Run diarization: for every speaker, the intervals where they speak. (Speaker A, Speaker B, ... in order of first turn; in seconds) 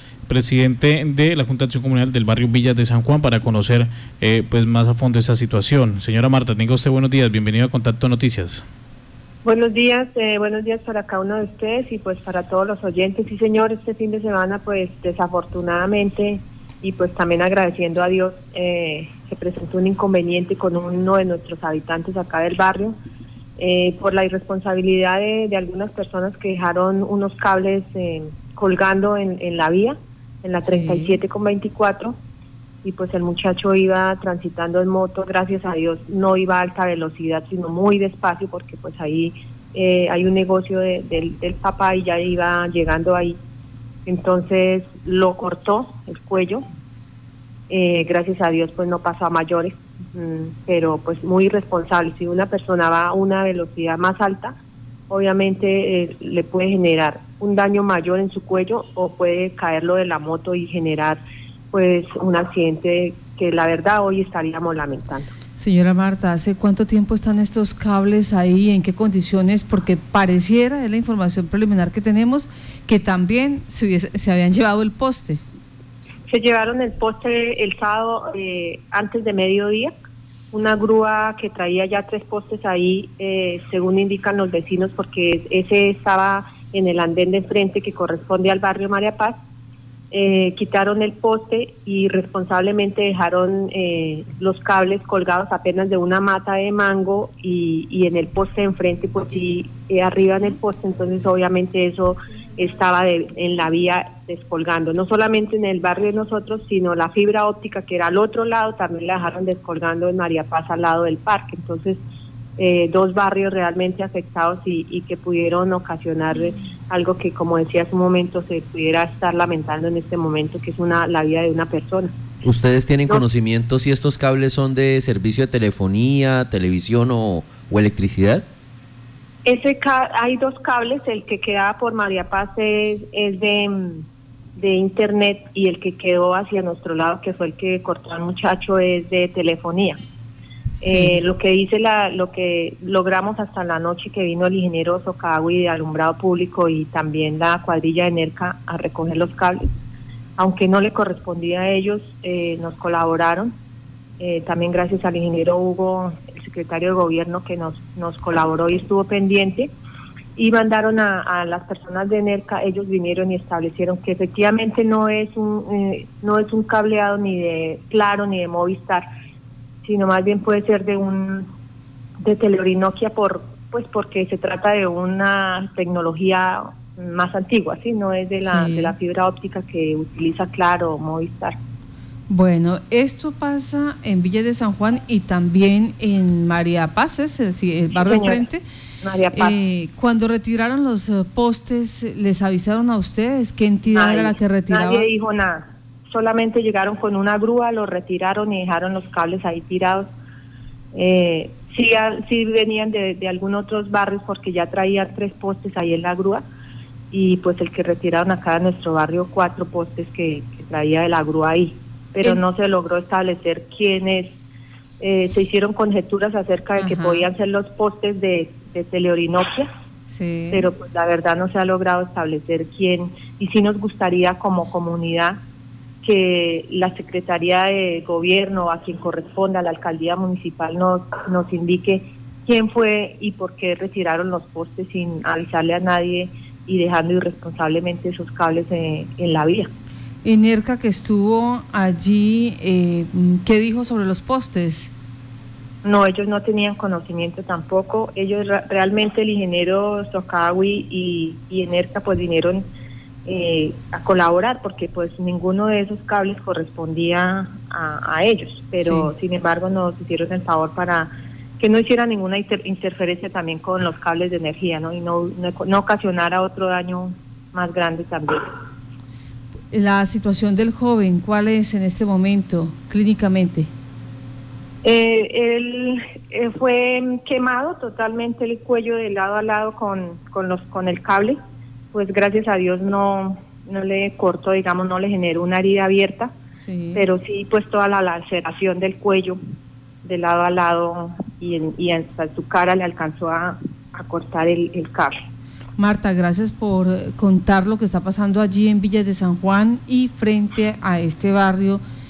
Speaker A: 0.3-8.6
Speaker B: 9.4-22.9, 23.6-32.2, 32.8-43.4, 44.1-46.6, 47.7-54.6, 55.1-61.2, 61.7-65.3, 76.3-79.9, 80.5-89.4, 90.1-112.0, 112.6-122.2, 129.5-134.1, 134.6-140.0, 140.8-149.7, 150.4-153.5, 154.2-159.7, 160.4-169.1, 169.8-171.5, 172.2-181.6, 187.9-188.5, 189.0-189.6, 193.9-200.1, 200.9-206.4, 207.1-214.4, 215.0-219.7, 220.5-225.4, 226.0-239.7, 245.8-252.6, 253.2-268.4, 274.8-281.4, 281.9-286.3, 286.9-289.4, 290.0-295.2
Speaker C: 30.6-31.2, 65.6-75.4, 140.8-141.2, 178.4-178.9, 182.3-188.6, 189.3-195.1, 216.8-217.3, 220.1-220.7, 240.2-244.9, 258.8-259.1, 269.7-273.7, 286.6-287.1, 295.8-301.8
Speaker D: 122.4-128.4